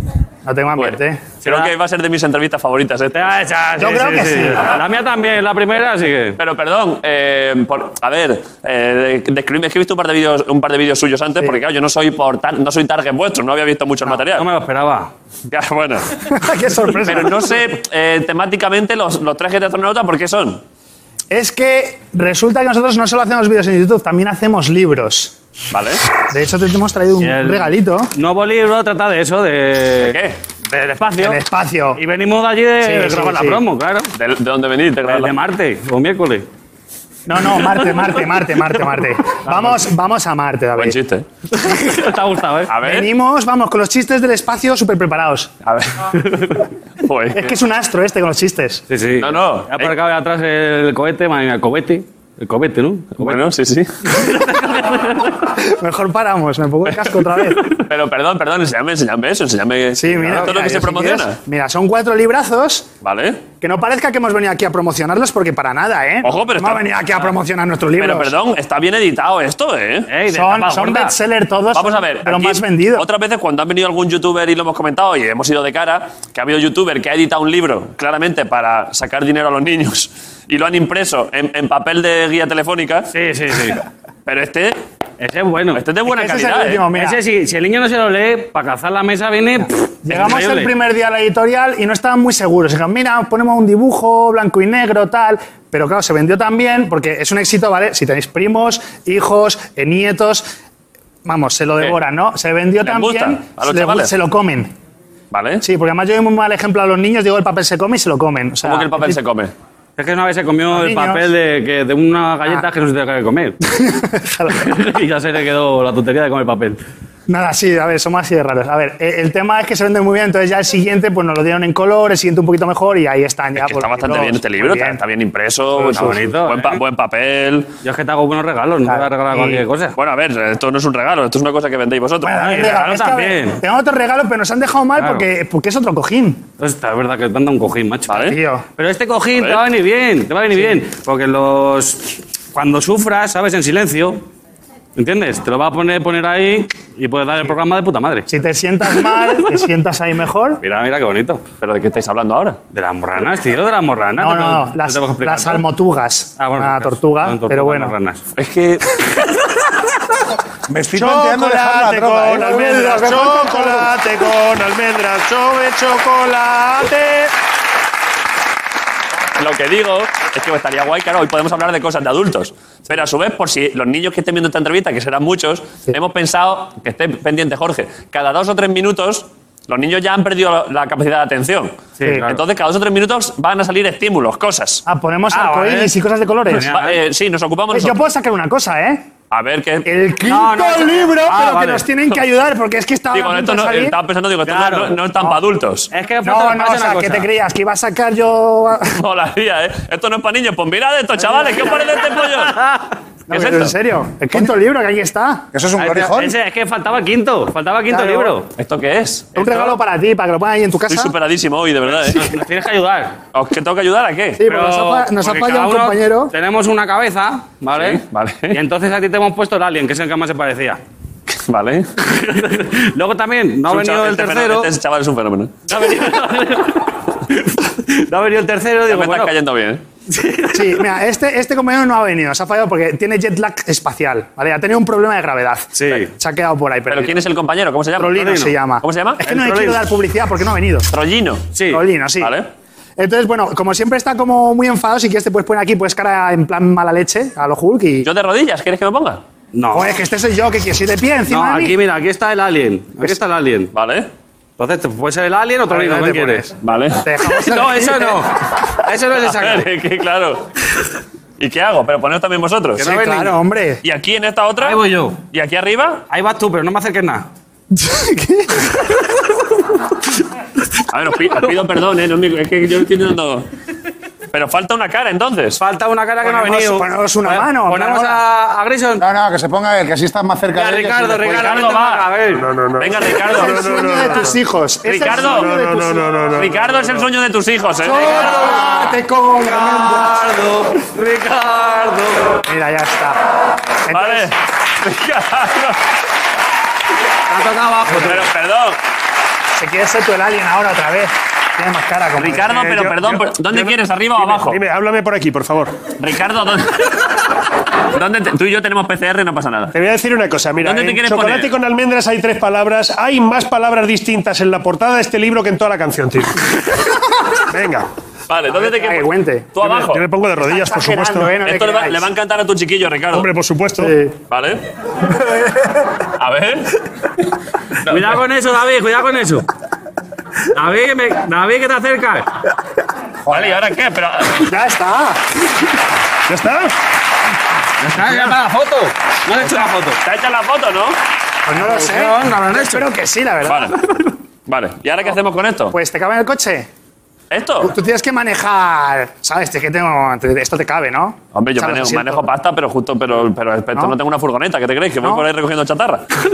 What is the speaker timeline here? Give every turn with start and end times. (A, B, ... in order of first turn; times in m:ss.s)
0:00.4-0:01.4 A
0:00.8-0:03.3 B
0:01.4-0:01.7 C
0:03.1-0:06.4 C
0:03.8-0:04.7 A
0:06.4-0:14.5 B
0:14.3-0:15.1 C
0:15.5-0:16.2 B
0:16.3-0:17.6 A
0:17.0-0:20.6 B
0:21.3-0:25.3 A
0:25.7-0:26.0 B
0:26.3-0:28.1 A
0:27.2-0:30.2 C
0:30.0-0:30.4 B
0:30.7-0:31.4 C
0:31.2-0:32.0 A
0:32.0-0:34.1 C
0:32.8-0:33.6 A
0:34.2-0:35.3 B
0:35.1-0:36.5 C
0:37.3-0:41.0 A
0:40.8-0:41.3 B
0:41.5-0:42.7 C
0:42.7-0:43.1 B
0:42.8-0:45.5 A
0:45.6-0:47.6 B
0:47.3-0:48.8 A
0:48.9-0:53.4 C
0:49.2-0:50.0 B
0:53.2-0:53.9 B
0:54.2-0:55.0 C
0:55.6-0:57.8 A
0:57.7-1:01.4 B
1:00.0-1:02.9 A
1:03.0-1:03.4 B
1:03.6-1:08.4 A
1:06.2-1:06.9 B
1:08.0-1:10.1 B
1:10.1-1:11.1 C
1:10.3-1:13.1 A
1:11.7-1:23.1 B
1:23.1-1:23.8 C
1:24.3-1:24.8 B
1:25.2-1:25.8 C
1:25.7-1:26.8 B
1:26.0-1:27.2 A
1:26.9-1:30.7 C
1:30.0-1:40.5 A
1:41.2-1:44.7 A
1:42.8-1:44.1 B
1:45.3-1:45.6 B
1:45.6-1:49.2 A
1:48.6-1:49.5 B
1:50.0-1:53.5 C
1:50.7-1:51.3 A
1:53.6-1:54.8 A
1:54.6-1:56.8 C
1:57.3-2:05.0 A
2:03.6-2:07.7 B
2:05.8-2:06.3 A
2:05.9-2:06.8 C
2:07.8-2:09.9 C
2:08.8-2:09.6 A
2:10.0-2:12.5 B
2:12.2-2:16.5 A
2:12.4-2:13.6 C
2:15.0-2:15.2 C
2:16.6-2:24.2 C
2:18.1-2:18.4 B
2:18.2-2:18.7 A
2:19.4-2:19.6 B
2:25.0-2:28.2 C
2:28.3-2:30.6 A
2:30.6-2:31.4 C
2:31.6-2:32.6 B
2:32.7-2:35.6 C
2:34.2-2:38.0 A
2:36.4-2:38.2 C
2:38.4-2:39.2 B
2:40.7-2:43.4 D
2:40.9-2:47.3 E
2:43.2-2:43.9 A
2:49.4-3:04.8 B
3:02.0-3:02.4 C
3:02.0-3:02.4 A
3:04.9-3:06.8 A
3:05.3-3:05.9 C
3:06.5-3:07.0 C
3:06.6-3:08.0 B
3:07.7-3:09.1 A
3:09.3-3:09.9 B
3:09.8-3:14.0 A
3:10.2-3:11.9 C
3:13.1-3:15.9 B
3:14.5-3:15.0 C
3:15.9-3:17.3 C
3:16.2-3:19.0 A
3:18.9-3:22.6 B
3:21.2-3:21.9 A
3:23.3-3:25.5 A
3:23.3-3:23.8 B
3:25.5-3:26.4 D
3:25.8-3:28.5 C
3:27.9-3:28.4 A
3:28.6-3:29.8 B
3:29.4-3:31.2 A
3:30.9-3:32.3 B
3:32.0-3:33.2 C
3:33.3-3:34.4 B
3:34.4-3:36.3 A
3:34.5-3:40.8 C
3:37.7-3:38.6 B
3:41.3-3:41.9 B
3:42.0-3:44.7 C
3:43.7-3:45.6 B
3:45.7-3:49.3 C
3:48.9-3:49.8 B
3:50.1-3:50.8 C
3:50.5-3:57.2 A
3:55.8-3:56.1 C
3:56.9-3:59.2 B
3:58.0-4:00.9 A
3:58.2-3:58.6 C
3:59.3-3:59.8 C
4:00.9-4:01.5 B
4:01.5-4:01.8 C
4:01.6-4:02.4 A
4:02.2-4:02.5 B
4:03.0-4:08.1 A
4:08.0-4:09.2 B
4:09.5-4:09.9 C
4:09.7-4:11.8 A
4:11.3-4:13.7 C
4:13.7-4:14.1 B
4:14.6-4:16.5 C
4:15.7-4:18.2 A
4:16.6-4:17.4 B
4:17.3-4:18.3 C
4:18.8-4:19.7 C
4:19.2-4:20.5 B
4:21.4-4:23.0 B
4:22.8-4:23.4 C
4:22.8-4:23.8 A
4:23.8-4:26.0 B
4:24.6-4:25.2 C
4:26.1-4:27.2 C
4:27.7-4:28.8 A
4:30.9-4:33.5 B
4:34.3-4:35.6 B
4:35.6-4:39.0 C
4:36.2-4:38.2 A
4:39.0-4:41.6 D
4:40.5-4:42.5 C
4:41.3-4:42.1 B
4:42.2-4:44.4 E
4:42.8-4:43.7 B
4:43.3-4:46.2 A
4:44.8-4:45.5 B
4:45.0-4:47.0 E
4:46.4-4:48.3 B
4:47.8-4:50.1 A
4:48.0-4:52.2 C
4:52.4-4:53.2 A
4:53.9-4:54.3 A
4:53.9-4:55.8 B
4:57.3-4:58.2 C
4:57.9-4:58.8 B
4:59.6-5:02.7 A
5:02.2-5:04.6 B
5:02.6-5:05.7 E
5:06.0-5:07.0 B
5:07.9-5:09.7 B
5:09.7-5:16.5 E
5:10.6-5:11.5 B
5:17.5-5:17.9 E
5:18.3-5:20.0 B
5:18.5-5:19.6 A
5:19.6-5:21.4 E
5:20.4-5:22.1 A
5:21.4-5:23.3 B
5:23.1-5:23.9 E
5:23.8-5:24.2 A
5:24.3-5:24.6 B
5:26.2-5:26.7 B
5:27.9-5:28.2 B
5:27.9-5:29.4 C
5:30.5-5:32.3 C
5:33.3-5:34.5 B
5:34.4-5:35.2 A
5:36.3-5:36.7 E
5:37.8-5:40.0 C
5:40.0-5:41.0 B
5:41.5-5:43.7 A
5:41.6-5:42.9 C
5:43.4-5:43.8 B
5:44.5-5:45.8 B
5:45.7-5:46.7 A
5:47.3-5:47.7 B
5:47.6-5:52.3 A
5:51.4-5:56.0 B
5:55.0-5:55.3 A